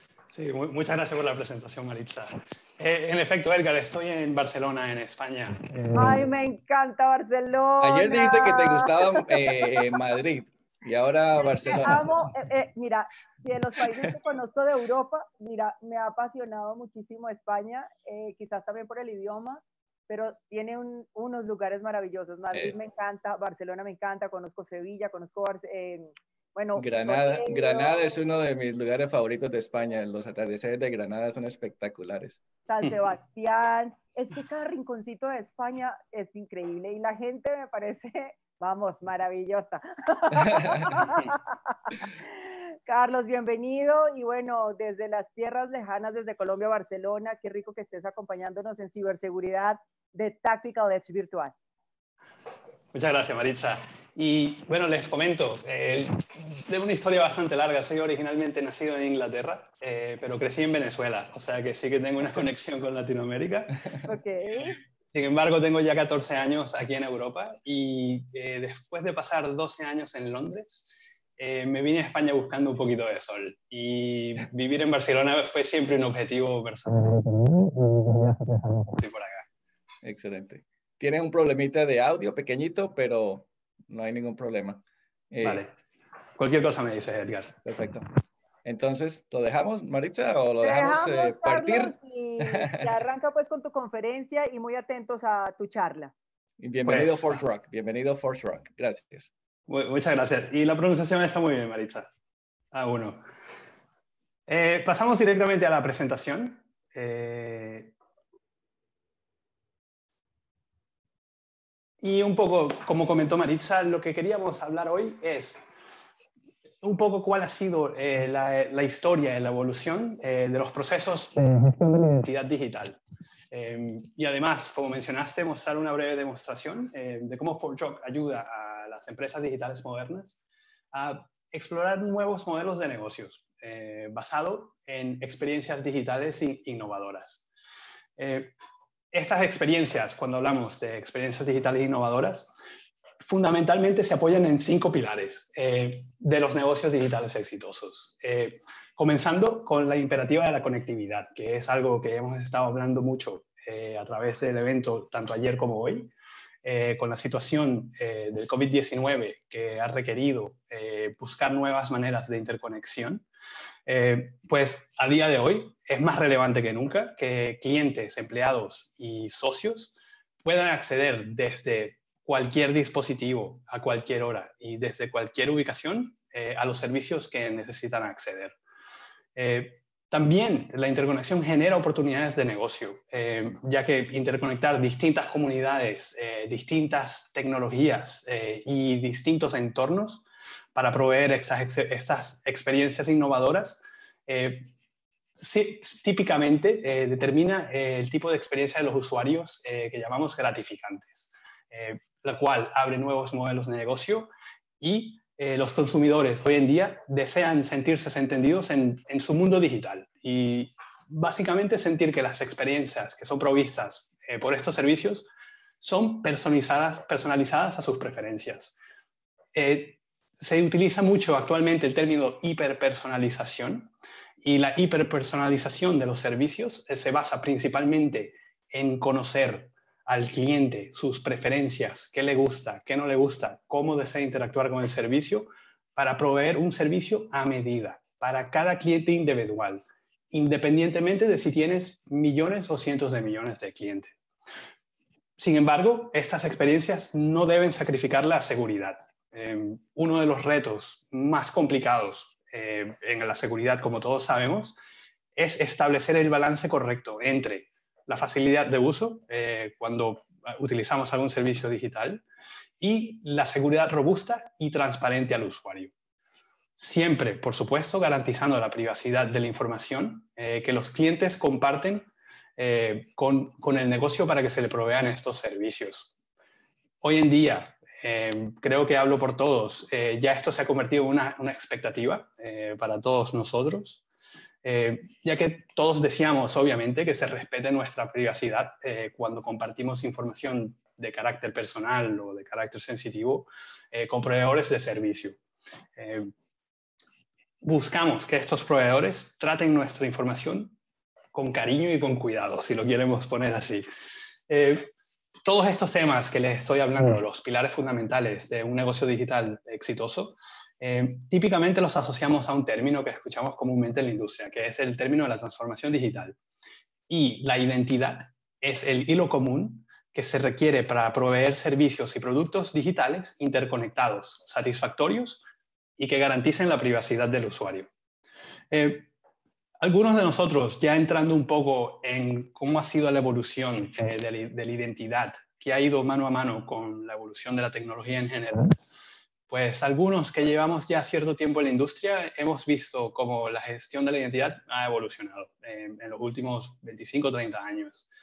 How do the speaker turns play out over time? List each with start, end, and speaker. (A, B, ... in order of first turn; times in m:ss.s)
0:00.3-0:06.3 A
0:05.9-0:09.6 B
0:07.8-0:12.2 C
0:11.4-0:28.1 B
0:26.8-0:32.4 C
0:32.7-0:42.1 B
0:42.8-0:51.5 B
0:52.9-1:03.8 A
1:04.0-1:04.8 B
1:05.1-1:19.5 A
1:20.0-1:25.6 C
1:25.4-1:25.7 A
1:26.4-1:27.6 A
1:27.6-1:28.1 C
1:28.6-1:32.9 C
1:30.6-1:36.1 B
1:36.6-1:39.3 C
1:36.8-1:37.4 A
1:39.7-1:42.1 A
1:42.7-1:43.2 A
1:44.5-1:47.9 A
1:52.0-1:55.6 A
1:56.8-2:03.0 A
2:03.5-2:10.4 A
2:10.9-2:17.4 A
2:18.2-2:18.5 A
2:19.1-2:22.5 A
2:23.2-2:36.1 A
2:36.6-2:43.2 A
2:43.9-2:58.6 A
2:59.3-3:14.7 A
3:15.4-3:35.3 A
3:35.8-3:38.7 A
3:39.5-4:04.1 A
4:05.4-4:14.8 A
4:15.4-4:22.2 A
4:22.8-4:25.9 A
4:26.8-4:36.1 A
4:37.0-4:44.0 A
4:44.6-4:55.4 A
4:56.0-4:56.3 A
4:57.6-5:00.8 A
5:01.3-5:03.8 A
5:04.5-5:04.9 A
5:05.4-5:16.4 A
5:17.1-5:25.4 A
5:26.0-5:27.9 A
5:28.7-5:29.1 A
5:29.8-5:38.7 A
5:39.5-5:48.1 A